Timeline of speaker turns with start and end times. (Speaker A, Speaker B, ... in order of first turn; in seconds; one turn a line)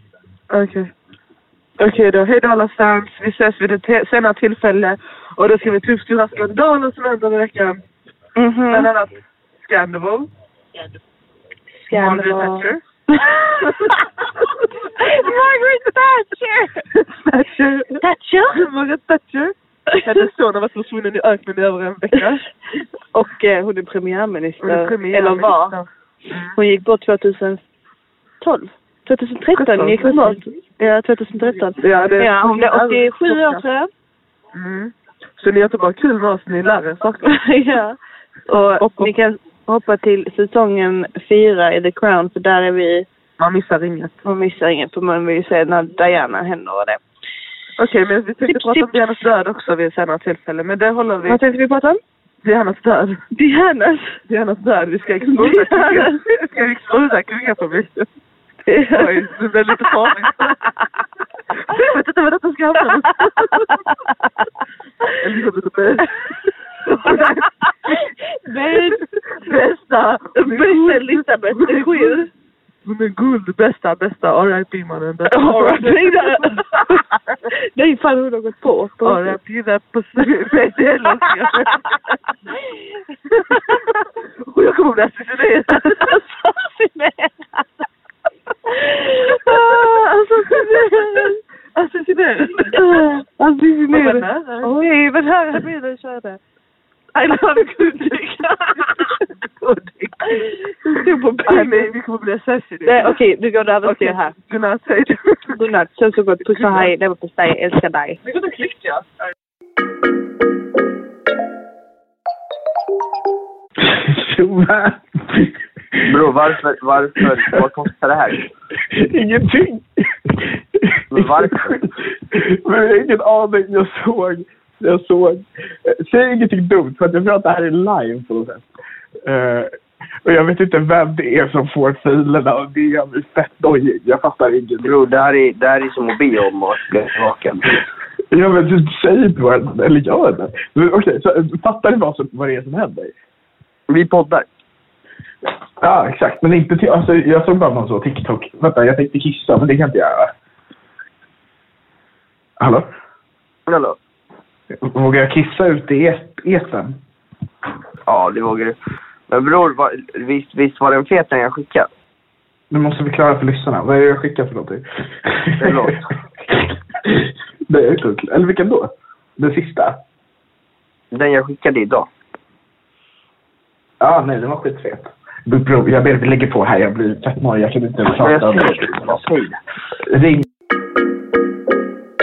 Speaker A: 0.5-0.9
Speaker A: 1.8-7.8
Speaker B: 8.3-8.9
Speaker A: 8.7-10.3
Speaker B: 11.9-13.9
Speaker A: 11.9-12.8
Speaker A: 13.3-15.3
Speaker B: 14.8-16.8
Speaker A: 16.9-18.0
Speaker B: 18.0-18.6
Speaker A: 18.5-22.4
Speaker B: 23.1-25.7
Speaker A: 24.6-26.5
Speaker B: 26.5-27.6
Speaker B: 28.4-33.9
Speaker A: 29.5-30.4
Speaker A: 31.8-33.6
Speaker A: 34.5-37.2
Speaker B: 37.2-43.0
Speaker A: 38.8-39.1
Speaker A: 43.4-44.2
Speaker B: 44.2-47.0
Speaker A: 47.8-51.4
Speaker B: 48.5-48.9
Speaker B: 51.2-52.0
Speaker A: 52.4-53.2
Speaker B: 53.3-54.2
Speaker A: 54.3-58.1
Speaker B: 55.2-56.2
Speaker B: 58.7-59.2
Speaker A: 58.9-60.6
Speaker A: 61.7-63.8
Speaker A: 65.2-66.2
Speaker A: 66.8-68.0
Speaker B: 67.9-69.0
Speaker A: 68.7-72.2
Speaker B: 70.3-72.3
Speaker A: 72.8-76.8
Speaker B: 75.3-79.4
Speaker A: 79.0-81.8
Speaker A: 83.3-83.9
Speaker B: 83.5-84.0
Speaker A: 84.5-86.1
Speaker B: 85.8-87.8
Speaker B: 88.7-89.6
Speaker A: 89.1-93.0
Speaker B: 90.4-91.3
Speaker B: 92.7-96.4
Speaker A: 93.9-94.7
Speaker B: 97.1-101.9
Speaker A: 97.6-98.1
Speaker A: 100.8-103.2
Speaker B: 102.8-104.4
Speaker A: 103.8-105.5
Speaker B: 105.5-108.2
Speaker A: 108.2-109.0
Speaker C: 113.8-116.3
Speaker D: 116.1-118.5
Speaker C: 118.9-128.7
Speaker D: 121.1-121.8
Speaker C: 129.2-129.7
Speaker C: 130.2-135.0
Speaker D: 134.8-137.7
Speaker C: 138.3-143.1
Speaker D: 143.9-144.5
Speaker C: 145.8-150.3
Speaker C: 152.6-152.9
Speaker D: 153.7-154.0
Speaker C: 154.8-157.0
Speaker D: 158.1-158.8
Speaker D: 159.3-161.9
Speaker C: 162.7-165.9
Speaker D: 165.6-166.0
Speaker C: 166.5-170.0
Speaker D: 171.1-172.1
Speaker C: 174.0-179.3
Speaker D: 178.2-179.6
Speaker C: 180.1-180.4